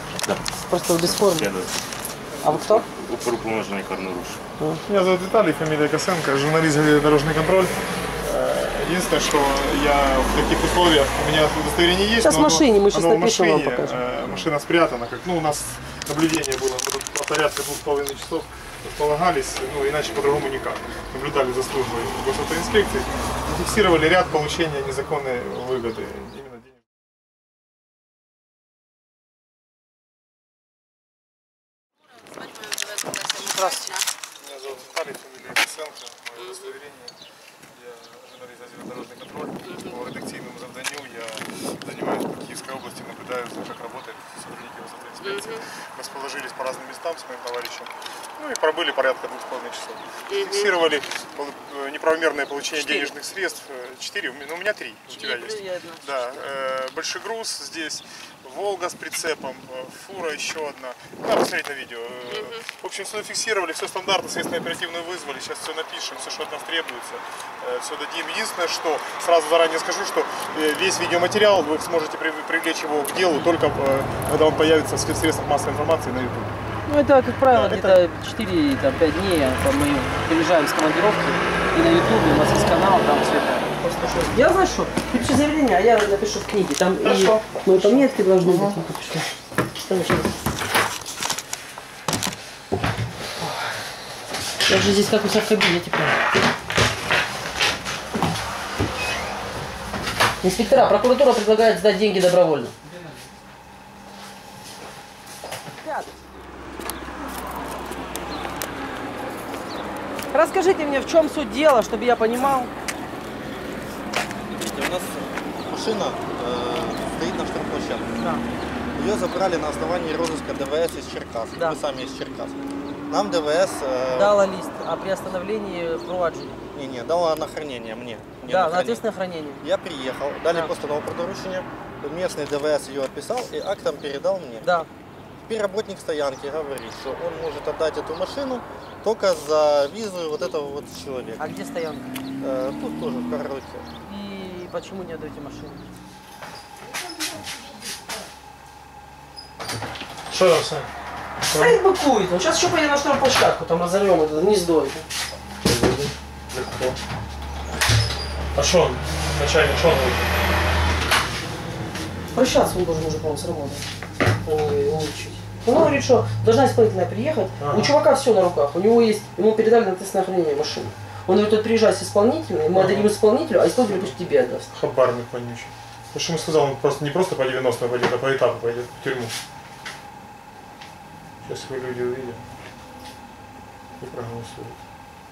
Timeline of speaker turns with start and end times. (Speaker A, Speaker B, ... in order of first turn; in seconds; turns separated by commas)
Speaker A: 0.5-1.5, Speaker B: 1.0-1.7, Speaker A: 2.4-2.8, Speaker B: 2.4-4.4, Speaker C: 4.9-26.8, Speaker A: 12.2-14.0, Speaker A: 32.5-34.1, Speaker C: 34.4-37.1, Speaker C: 37.7-76.5, Speaker A: 52.8-53.1, Speaker A: 55.1-56.4, Speaker A: 76.9-90.3, Speaker C: 77.5-78.0, Speaker C: 87.0-88.8, Speaker A: 94.7-96.2, Speaker A: 100.4-102.8, Speaker A: 105.8-106.1, Speaker A: 110.3-112.7, Speaker D: 114.5-118.1, Speaker A: 118.2-118.4, Speaker D: 118.9-124.4, Speaker A: 121.5-121.8, Speaker A: 124.1-126.6, Speaker D: 126.7-129.0, Speaker A: 128.4-129.6, Speaker D: 129.6-134.8, Speaker A: 134.6-134.9, Speaker D: 135.4-141.5, Speaker A: 141.4-142.1, Speaker D: 142.4-143.9, Speaker A: 144.1-145.9, Speaker C: 150.3-150.9, Speaker C: 151.5-151.8, Speaker A: 151.5-155.1, Speaker C: 155.6-157.0, Speaker C: 158.5-160.2, Speaker A: 162.3-163.8, Speaker A: 164.4-174.7, Speaker C: 167.6-167.9, Speaker C: 172.7-173.1, Speaker C: 174.7-179.3, Speaker C: 181.4-182.4, Speaker C: 184.0-184.8